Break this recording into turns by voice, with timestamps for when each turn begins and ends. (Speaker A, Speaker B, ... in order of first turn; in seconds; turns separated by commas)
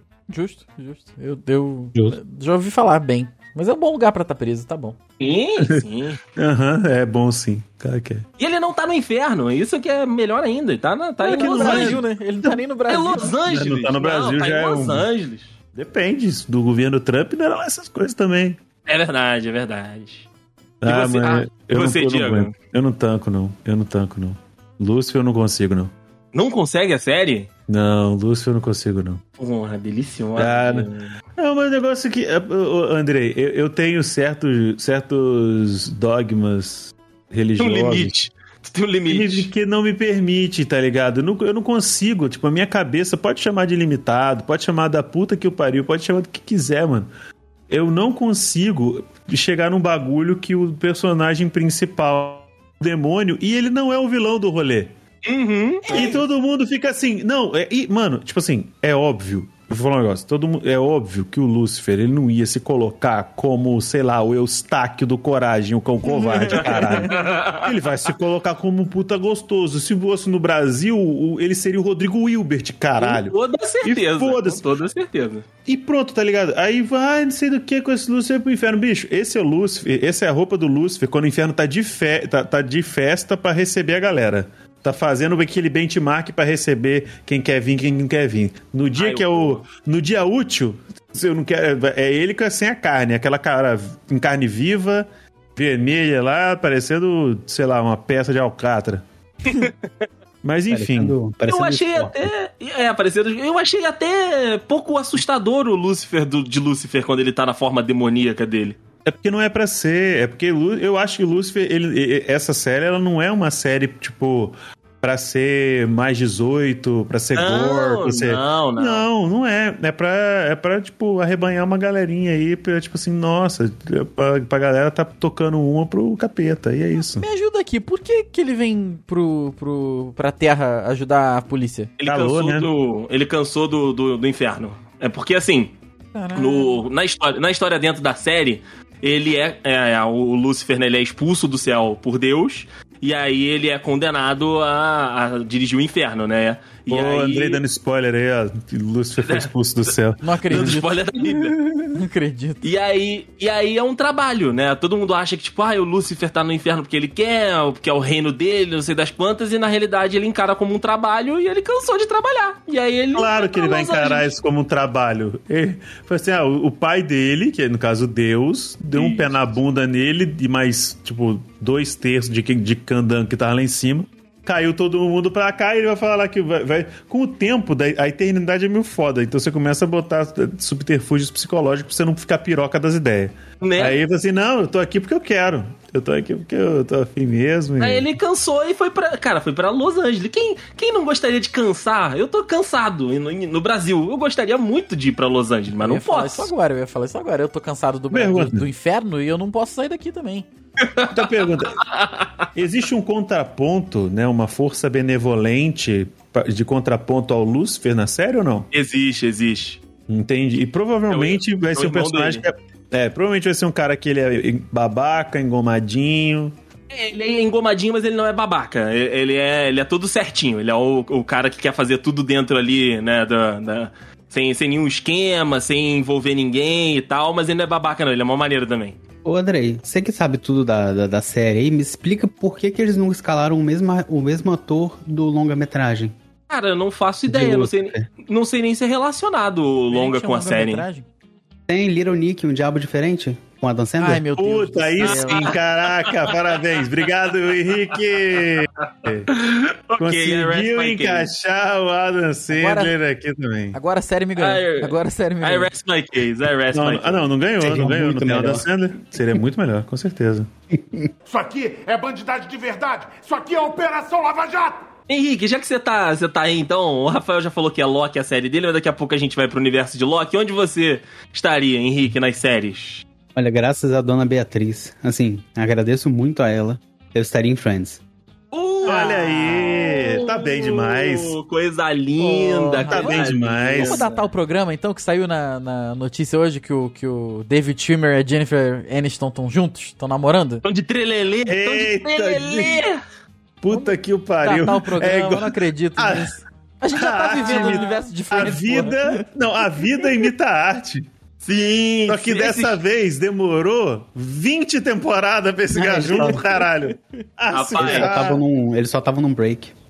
Speaker A: 0.3-5.0, Speaker B: 5.2-6.2, Speaker C: 6.3-8.2, Speaker B: 8.4-12.0, Speaker A: 11.2-13.3, Speaker C: 11.2-12.6, Speaker B: 12.9-15.5, Speaker C: 13.4-15.1, Speaker C: 15.7-18.6, Speaker B: 18.9-20.3, Speaker C: 20.8-25.9, Speaker B: 20.8-22.5, Speaker B: 26.3-27.5, Speaker C: 27.7-29.2, Speaker B: 29.4-31.1, Speaker C: 30.4-38.1, Speaker B: 37.6-39.5, Speaker C: 39.1-47.1, Speaker C: 47.7-54.9, Speaker B: 55.2-56.2, Speaker C: 55.9-74.6, Speaker A: 66.1-67.1, Speaker B: 66.5-67.7, Speaker B: 73.0-75.5, Speaker C: 75.7-99.0, Speaker B: 89.0-89.6, Speaker B: 99.5-99.7, Speaker C: 100.4-101.2, Speaker D: 100.7-102.3, Speaker B: 101.5-108.8, Speaker C: 109.0-127.2, Speaker B: 117.3-119.1, Speaker A: 127.1-131.9, Speaker B: 132.0-135.7, Speaker C: 132.1-132.7, Speaker A: 136.1-136.9, Speaker B: 136.3-147.6, Speaker C: 146.9-152.0, Speaker B: 149.2-149.9, Speaker A: 150.2-151.0, Speaker B: 150.5-151.6, Speaker A: 151.9-152.6, Speaker B: 152.6-164.3, Speaker C: 163.2-188.1, Speaker B: 168.9-169.3, Speaker B: 183.6-184.0, Speaker B: 187.8-196.5, Speaker A: 195.8-200.5, Speaker C: 198.1-198.7, Speaker B: 200.8-202.4, Speaker C: 201.1-201.8, Speaker C: 202.5-208.7, Speaker B: 208.7-209.8, Speaker C: 210.1-216.5, Speaker B: 211.1-212.4, Speaker B: 216.9-229.0, Speaker D: 229.2-236.1, Speaker B: 236.5-240.8, Speaker D: 237.3-238.1, Speaker A: 239.9-241.1, Speaker D: 241.7-244.2, Speaker A: 244.0-245.6, Speaker C: 244.4-249.3, Speaker B: 245.1-246.4, Speaker B: 249.3-251.3, Speaker C: 250.0-253.8, Speaker A: 252.5-252.9, Speaker A: 253.7-255.7, Speaker B: 254.4-257.3, Speaker C: 256.7-260.5, Speaker D: 257.6-258.7, Speaker D: 260.7-261.1, Speaker E: 261.3-264.9, Speaker B: 265.1-273.0, Speaker D: 273.4-278.0, Speaker B: 278.5-284.1, Speaker C: 278.8-281.4, Speaker A: 282.2-290.6, Speaker C: 282.9-284.1, Speaker B: 290.6-293.0, Speaker C: 291.5-292.8, Speaker C: 293.6-296.4, Speaker A: 293.7-299.2, Speaker C: 296.9-301.1, Speaker B: 297.4-297.9, Speaker A: 299.9-300.2, Speaker B: 301.4-302.8, Speaker C: 302.1-308.4, Speaker D: 305.7-306.6, Speaker B: 307.5-308.2, Speaker D: 307.8-309.7